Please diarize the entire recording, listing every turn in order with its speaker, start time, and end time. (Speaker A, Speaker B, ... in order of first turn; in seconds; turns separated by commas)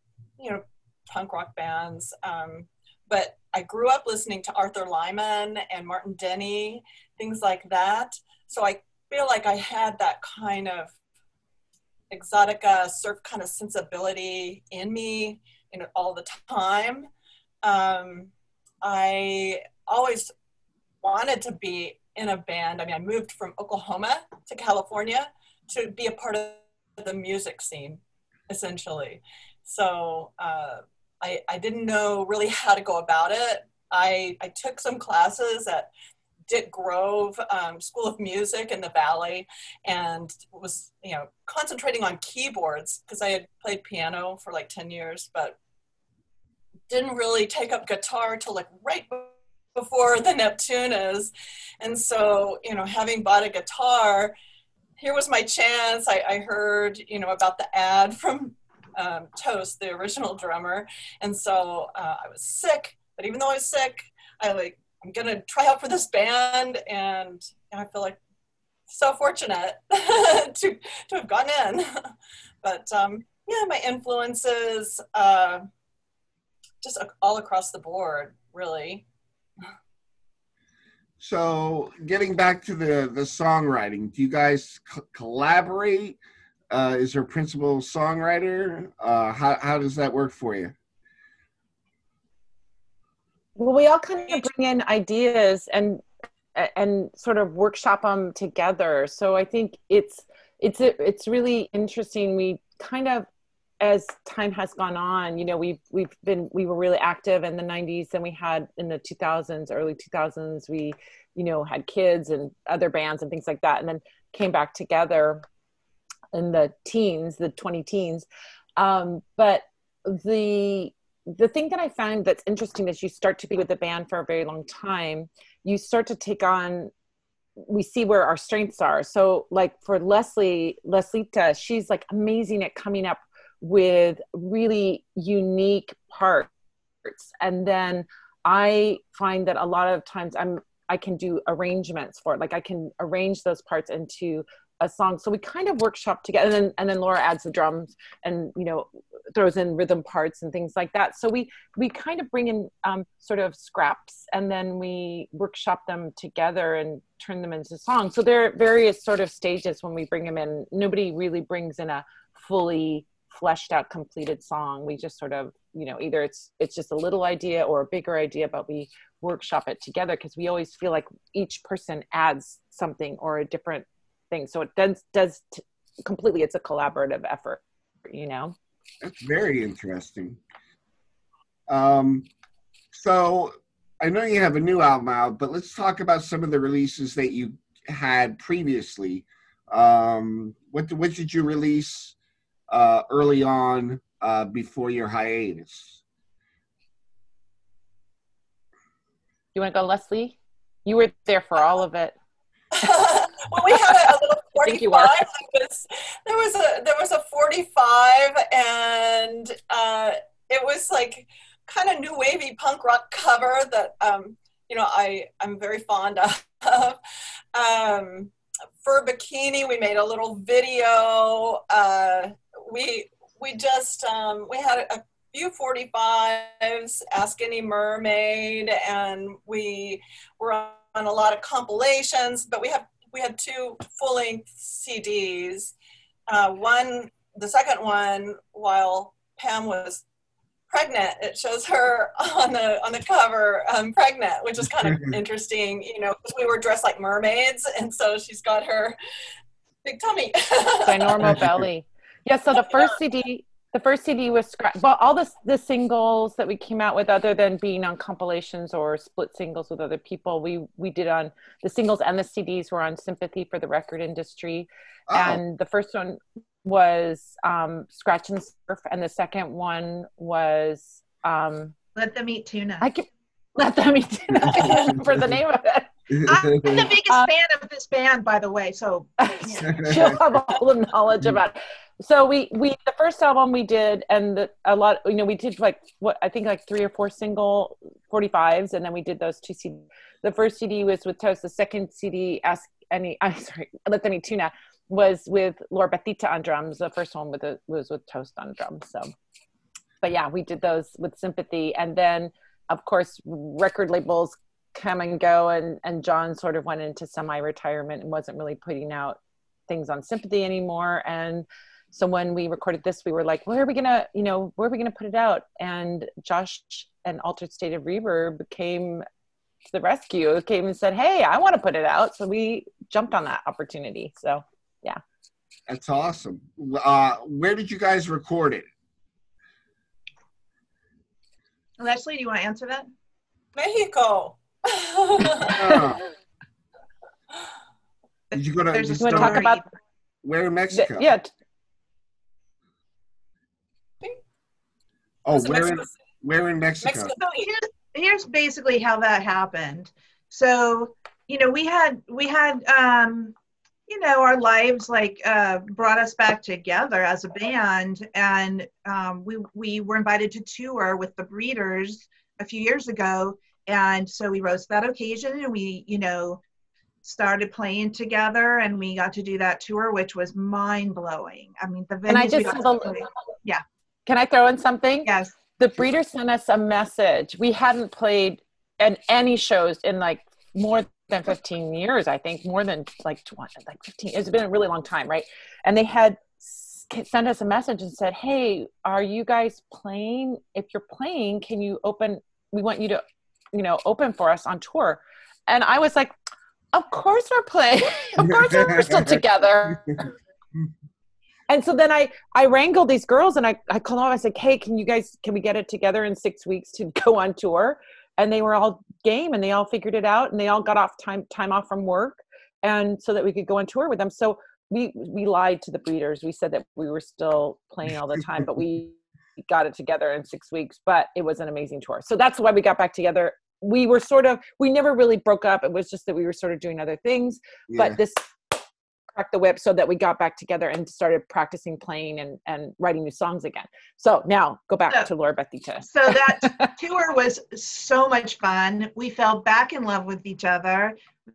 Speaker A: 0.4-10.9, Speaker A: 12.1-17.1, Speaker A: 17.6-18.3, Speaker A: 18.8-20.3, Speaker A: 21.0-35.9, Speaker A: 36.5-45.6, Speaker A: 46.9-54.3, Speaker A: 55.0-68.2, Speaker A: 68.9-71.9, Speaker A: 72.6-75.7, Speaker A: 76.8-79.0, Speaker B: 81.2-86.2, Speaker B: 86.7-90.7, Speaker C: 93.6-96.0, Speaker C: 96.5-103.3, Speaker C: 103.8-115.4, Speaker C: 116.3-118.2, Speaker C: 118.8-126.9, Speaker C: 127.7-136.5, Speaker C: 137.1-178.6, Speaker B: 179.0-180.4, Speaker B: 181.7-182.3, Speaker B: 182.9-192.2, Speaker B: 192.7-196.0, Speaker C: 199.6-202.1, Speaker A: 202.7-217.0, Speaker C: 203.7-205.2, Speaker A: 217.5-235.7, Speaker A: 236.3-240.0, Speaker A: 240.7-249.0, Speaker A: 249.8-251.4, Speaker C: 250.8-271.8, Speaker B: 251.2-251.7, Speaker A: 252.5-253.0, Speaker B: 265.1-265.4, Speaker D: 271.9-272.9, Speaker C: 272.8-276.2, Speaker B: 274.4-275.2, Speaker A: 274.6-274.9, Speaker B: 276.1-276.9, Speaker D: 276.2-279.8, Speaker C: 279.2-299.1, Speaker B: 279.7-280.2, Speaker C: 300.0-319.0, Speaker C: 319.7-325.0, Speaker B: 325.7-328.7, Speaker D: 331.8-332.9, Speaker A: 333.6-335.8, Speaker B: 335.3-336.1, Speaker D: 338.3-339.6, Speaker B: 338.3-339.5, Speaker C: 339.0-339.6, Speaker B: 340.2-341.1, Speaker C: 340.7-341.3, Speaker B: 345.2-347.1, Speaker A: 345.3-345.9, Speaker A: 346.8-347.5, Speaker D: 347.3-353.4, Speaker D: 353.9-366.4, Speaker D: 367.0-373.6, Speaker C: 372.1-373.0, Speaker C: 374.1-393.0, Speaker D: 375.1-375.3, Speaker C: 393.5-396.1, Speaker C: 396.7-400.1, Speaker C: 401.5-428.6, Speaker B: 427.7-428.0, Speaker C: 429.1-436.7, Speaker D: 435.9-440.9